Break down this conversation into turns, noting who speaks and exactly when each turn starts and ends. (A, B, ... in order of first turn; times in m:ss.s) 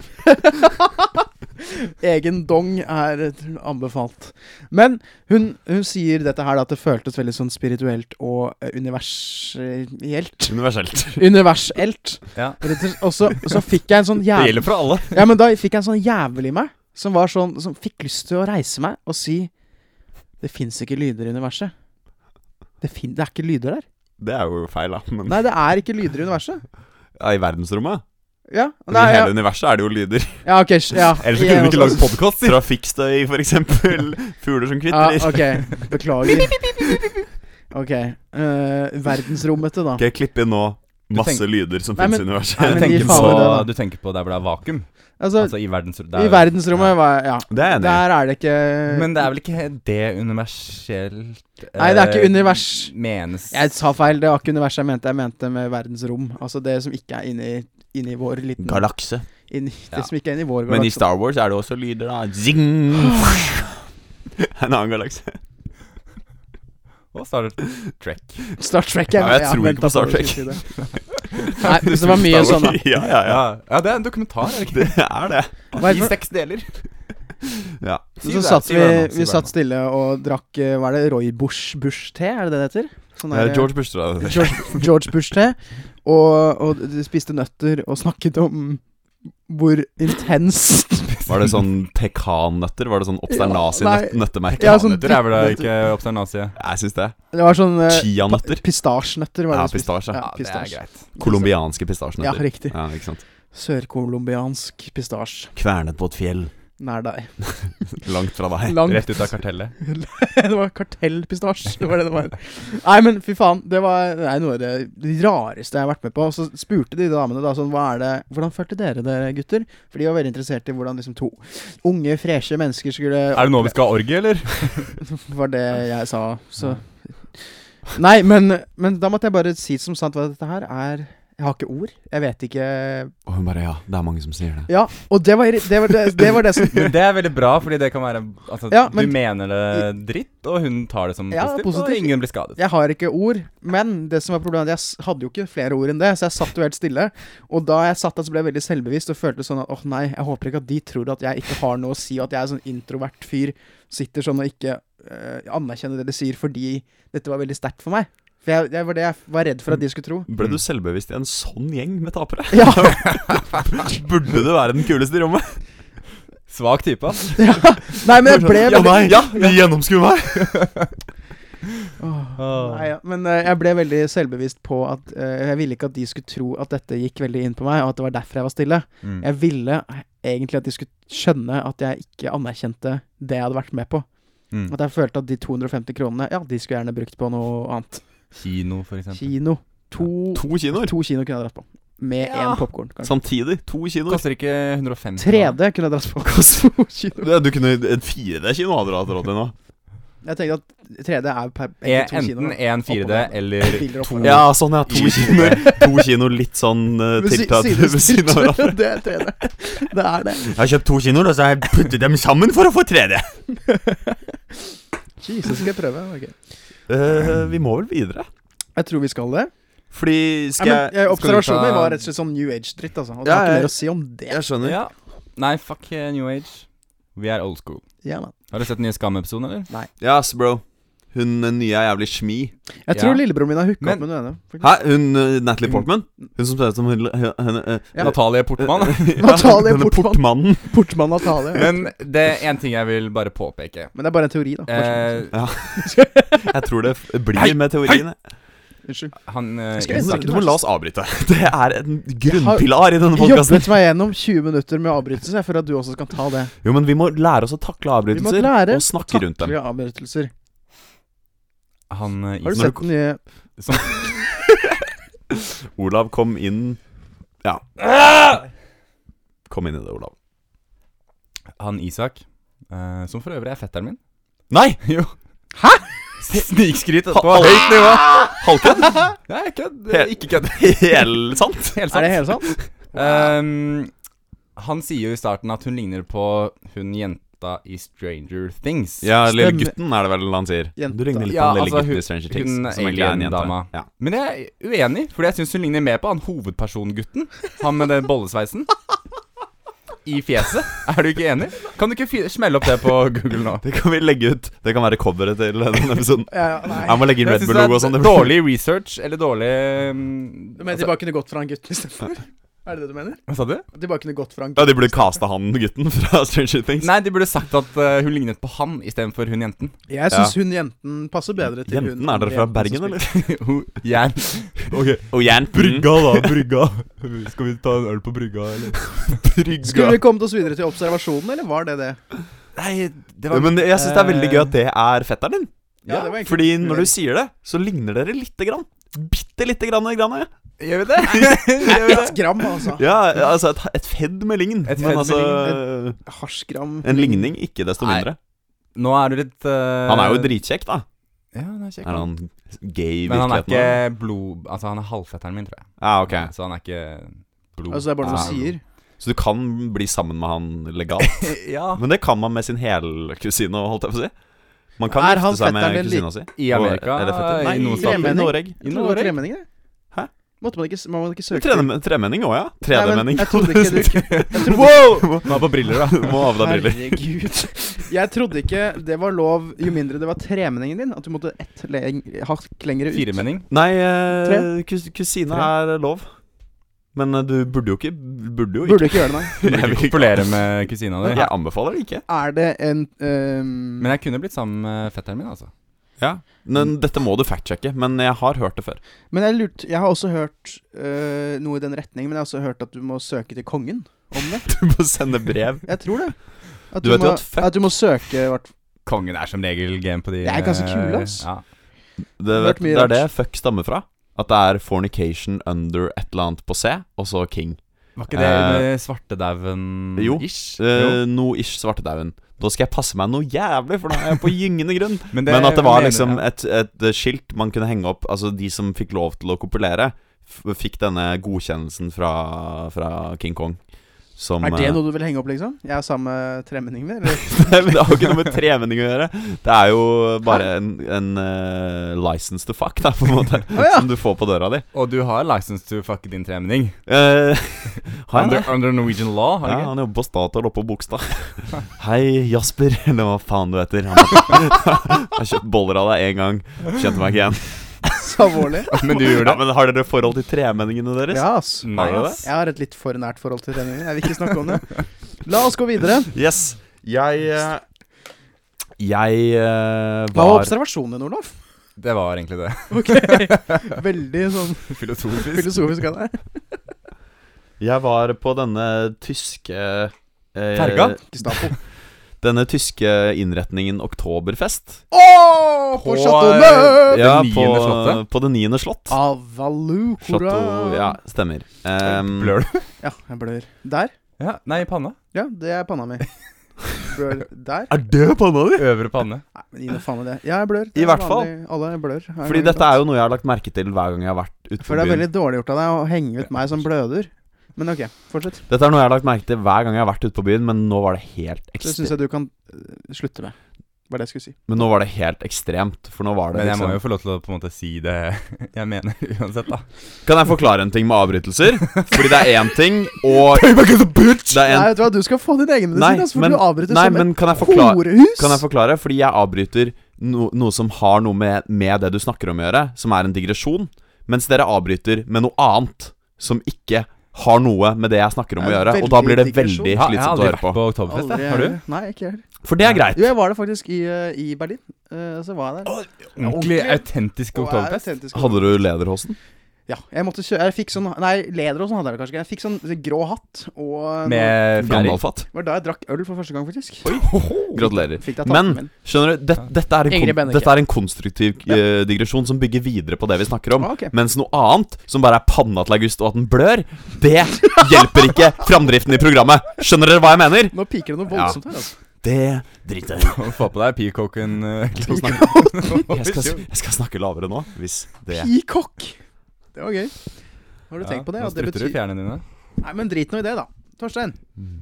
0:00.2-0:10.6 A
0:10.5-0:11.3 B
0:11.1-0:19.5 A
0:12.3-0:12.6 C
0:14.3-0:15.2 C
0:20.4-0:21.7 A
0:22.8-0:23.8 A
0:24.2-0:25.4 B
0:25.3-0:26.6 A
0:27.2-0:28.0 B
0:28.5-0:29.3 A
0:28.9-0:30.4 B
0:30.4-0:32.1 A
0:31.2-0:32.6 C
0:32.4-0:35.8 B
0:34.9-0:36.9 A
0:37.7-0:40.0 A
0:40.0-0:43.6 B
0:41.1-0:41.4 C
0:42.0-0:43.7 A
0:42.6-0:46.9 C
0:45.2-0:49.2 A
0:47.5-0:48.0 B
0:48.9-0:53.6 C
0:51.8-0:52.9 A
0:53.5-1:01.0 A
0:58.6-0:59.2 B
1:00.7-1:03.7 B
1:04.4-1:05.4 B
1:07.1-1:08.4 C
1:08.6-1:10.7 A
1:09.1-1:10.6 B
1:10.9-1:11.9 C
1:11.6-1:12.8 A
1:11.6-1:13.4 B
1:13.2-1:15.0 C
1:14.7-1:15.5 B
1:15.7-1:16.7 C
1:15.8-1:16.1 A
1:17.6-1:18.1 B
1:18.2-1:28.8 A
1:18.2-1:19.5 C
1:23.3-1:24.9 B
1:29.5-1:31.3 A
1:31.3-1:35.2 B
1:33.3-1:35.7 A
1:34.5-1:36.6 C
1:36.6-1:37.2 B
1:37.3-1:41.5 A
1:37.9-1:38.6 B
1:39.5-1:40.2 B
1:40.2-1:41.1 C
1:41.2-1:43.2 B
1:42.2-1:42.8 A
1:43.5-1:45.5 A
1:45.6-1:46.5 B
1:46.8-1:47.9 A
1:47.4-1:48.9 B
1:48.6-1:49.2 A
1:48.8-1:49.7 C
1:49.8-2:03.8 A
2:03.3-2:05.0 C
2:05.0-2:13.1 A
2:13.2-2:14.7 B
2:14.7-2:16.9 A
2:16.7-2:22.6 C
2:18.7-2:19.8 A
2:21.3-2:40.3 A
2:40.3-2:45.6 B
2:42.5-2:43.3 A
2:43.0-2:43.4 C
2:46.5-2:47.4 C
2:47.4-2:49.5 A
2:48.2-2:50.5 B
2:48.8-2:49.4 C
2:50.3-2:50.9 C
2:52.0-3:04.0 A
2:52.4-2:52.8 C
3:04.7-3:08.0 A
3:08.3-3:09.3 C
3:09.1-3:13.1 A
3:10.3-3:10.9 B
3:12.2-3:12.6 C
3:13.0-3:14.2 B
3:14.1-3:15.6 C
3:15.2-3:17.3 A
3:17.2-3:19.5 B
3:20.2-3:24.5 A
3:21.8-3:25.6 C
3:24.0-3:28.8 B
3:25.1-3:25.8 A
3:27.2-3:30.5 A
3:30.4-3:33.4 B
3:33.6-3:34.2 A
3:35.2-3:36.3 A
3:36.9-3:38.3 B
3:38.8-3:39.5 A
3:39.9-3:41.3 B
3:40.6-3:44.4 A
3:41.1-3:42.0 C
3:43.2-3:43.7 B
3:44.2-3:44.8 B
3:44.6-3:47.8 C
3:48.0-3:48.3 A
3:48.5-3:49.7 C
3:50.0-3:52.5 B
3:52.8-3:54.8 A
3:52.9-3:53.2 C
3:54.6-4:00.8 B
3:58.0-3:59.2 C
3:59.1-4:01.8 A
4:01.5-4:03.9 C
4:03.9-4:06.4 A
4:04.7-4:05.3 C
4:05.3-4:08.2 B
4:07.4-4:08.0 C
4:08.8-4:09.2 A
4:09.2-4:10.3 C
4:09.8-4:10.6 A
4:09.9-4:13.7 B
4:12.2-4:16.5 A
4:16.6-4:19.5 B
4:18.1-4:20.3 A
4:21.9-4:22.9 C
4:22.4-4:23.2 A
4:22.6-4:22.8 B
4:23.6-4:24.0 C
4:25.3-4:26.8 B
4:27.4-4:28.3 B
4:29.5-4:30.1 B
4:31.6-4:34.0 C
4:34.5-4:34.8 B
4:34.8-4:35.1 C
4:35.6-4:35.8 A
4:36.2-4:38.4 C
4:37.1-4:39.1 B
4:39.2-4:40.8 C
4:39.9-4:41.8 B
4:41.7-4:42.2 C
4:41.9-4:43.3 A
4:42.9-4:43.9 C
4:44.6-4:49.1 C
4:49.0-4:53.9 B
4:49.2-4:49.8 A
4:50.8-4:51.4 A
4:51.2-4:58.7 C
5:00.0-5:03.6 C
5:03.6-5:08.4 B
5:06.3-5:07.1 A
5:07.2-5:10.9 C
5:10.6-5:15.2 A
5:13.3-5:13.6 C
5:14.6-5:16.9 B
5:16.8-5:19.7 C
5:19.9-5:23.0 A
5:20.1-5:20.3 B
5:21.4-5:23.1 B
5:23.0-5:29.2 C
5:25.1-5:26.3 B
5:29.0-5:30.0 B
5:29.6-5:32.0 A
5:32.6-5:34.5 C
5:33.3-5:35.5 B
5:35.8-5:36.1 C
5:35.8-5:36.9 A
5:36.1-5:40.3 B
5:40.6-5:42.2 C
5:41.6-5:42.8 A
5:41.7-5:42.0 B
5:42.7-5:46.0 B
5:44.6-5:45.5 C
5:45.4-5:47.3 A
5:46.8-5:48.2 B
5:47.8-5:48.1 C
5:48.7-5:50.3 C
5:49.8-5:50.8 B
5:51.3-5:52.1 C
5:51.8-5:53.8 B
5:53.0-5:58.4 C
5:55.8-5:56.3 B
5:57.7-5:58.6 A
5:58.0-6:04.1 B
6:01.0-6:01.8 C
6:04.8-6:08.5 B
6:04.9-6:06.1 A
6:06.4-6:09.2 C
6:07.4-6:09.4 A
6:10.4-6:11.7 A
6:11.3-6:17.0 B
6:12.7-6:15.1 A
6:14.0-6:16.3 C
6:16.2-6:23.2 A
6:22.9-6:23.4 C
6:23.5-6:26.2 B
6:24.2-6:24.5 A
6:26.9-6:30.4 B
6:28.6-6:29.4 A
6:29.4-6:31.2 C
6:31.1-6:32.0 B
6:31.1-6:31.3 A
6:32.1-6:33.9 A
6:33.8-6:35.5 C
6:36.0-6:38.8 B
6:39.1-6:44.6 A
6:44.4-6:45.7 B
6:45.6-6:48.5 A
6:46.8-6:47.8 B
6:48.8-6:51.4 C
6:50.2-6:51.3 A
6:52.2-6:58.7 B
6:52.3-6:53.1 A
6:58.0-7:01.0 C
7:00.0-7:14.8 B
7:05.1-7:06.2 C
7:14.4-7:17.8 A
7:17.2-7:24.6 B
7:23.5-7:23.9 A
7:24.7-7:26.8 C
7:26.9-7:28.7 B
7:28.1-7:29.7 C
7:29.4-7:38.0 B
7:37.9-7:38.8 A
7:38.7-7:39.4 C
7:38.8-7:42.1 B
7:41.1-7:46.1 A
7:41.6-7:42.2 C
7:46.1-7:47.6 B
7:48.8-7:50.5 B
7:50.1-7:51.3 A
7:51.8-7:53.8 C
7:52.7-7:56.4 A
7:54.7-7:55.7 C
7:57.6-8:01.0 B
8:00.5-8:01.5 C
8:01.0-8:01.6 A
8:02.2-8:04.8 B
8:04.9-8:07.0 A
8:05.8-8:08.0 C
8:06.9-8:09.0 B
8:08.9-8:11.0 A
8:10.0-8:12.3 B
8:11.8-8:12.6 C
8:12.8-8:13.9 A
8:14.2-8:15.0 C
8:15.1-8:16.0 A
8:16.8-8:17.7 A
8:17.7-8:18.7 B
8:18.6-8:19.2 C
8:19.3-8:22.7 A
8:20.7-8:21.3 B
8:22.2-8:25.1 B
8:24.6-8:28.4 A
8:28.5-8:31.9 B
8:31.6-8:33.3 A
8:33.9-8:34.4 A
8:34.5-8:36.8 B
8:36.3-8:39.6 C
8:40.0-8:43.6 B
8:43.2-8:44.4 C
8:44.3-8:44.8 B
8:44.4-8:48.4 A
8:45.7-9:00.6 B
8:58.4-8:59.8 A
8:59.7-9:01.6 C
9:00.9-9:08.6 A
9:02.4-9:03.1 B
9:05.7-9:07.9 C
9:08.1-9:09.2 B
9:09.7-9:14.8 A
9:14.0-9:15.0 C
9:14.6-9:15.2 B
9:15.3-9:17.0 A
9:16.8-9:30.6 B
9:17.0-9:17.6 C
9:17.5-9:18.7 A
9:19.9-9:20.6 A
9:23.6-9:23.9 A
9:30.5-9:31.7 A
9:31.1-9:31.4 B
9:32.0-9:33.2 B
9:33.0-9:36.4 C
9:34.8-9:38.3 B
9:35.1-9:35.8 A
9:38.1-9:39.0 A
9:39.5-9:39.9 A
9:40.7-9:41.8 A
9:40.8-9:42.2 C
9:42.6-9:44.2 A